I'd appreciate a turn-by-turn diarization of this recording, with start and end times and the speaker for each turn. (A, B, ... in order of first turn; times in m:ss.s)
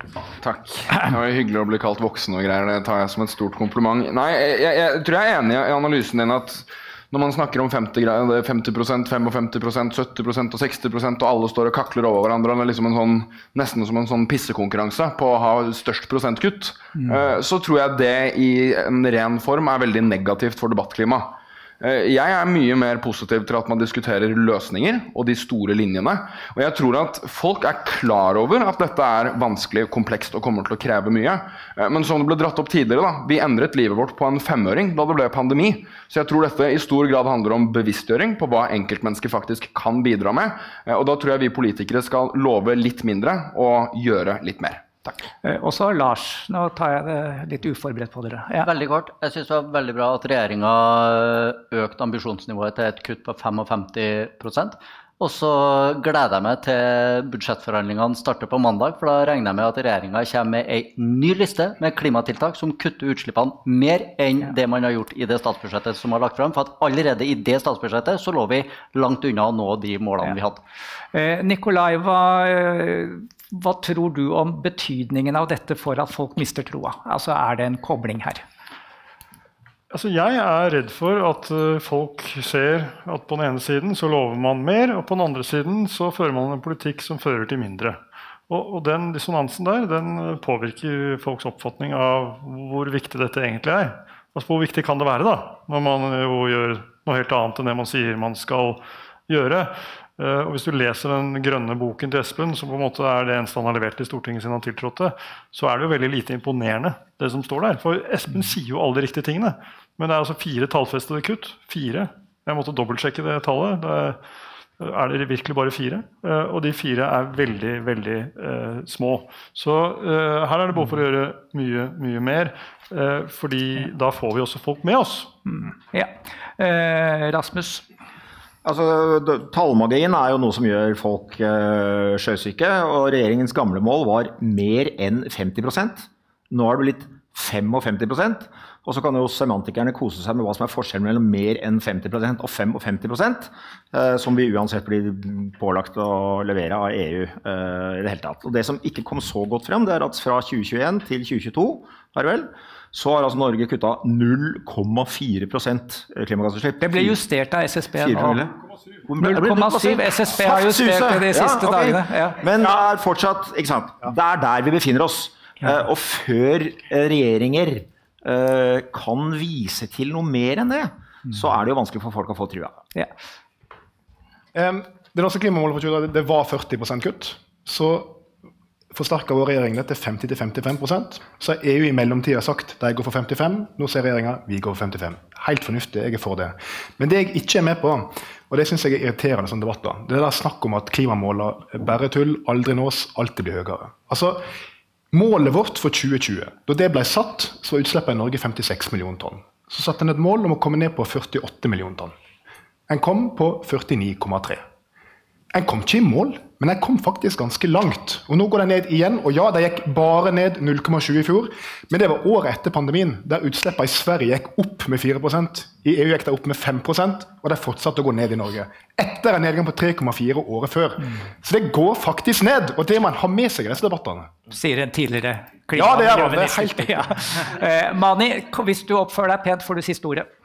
0:00.4-0:45.1 A
0:17.0-0:17.2 B
0:45.4-0:48.7 B
0:48.6-1:10.6 C
1:11.1-1:18.4 B
1:19.9-1:54.2 D
1:54.8-2:05.3 D
2:05.5-2:07.9 B
2:08.6-2:37.3 E
2:36.8-2:38.5 B
2:37.9-2:52.8 E
2:39.2-2:42.4 B
2:54.5-2:58.2 F
2:58.9-3:14.4 F
3:15.1-3:22.1 F
3:22.9-3:24.6 F
3:25.5-3:44.4 F
3:44.5-3:50.3 B
3:45.7-3:47.1 F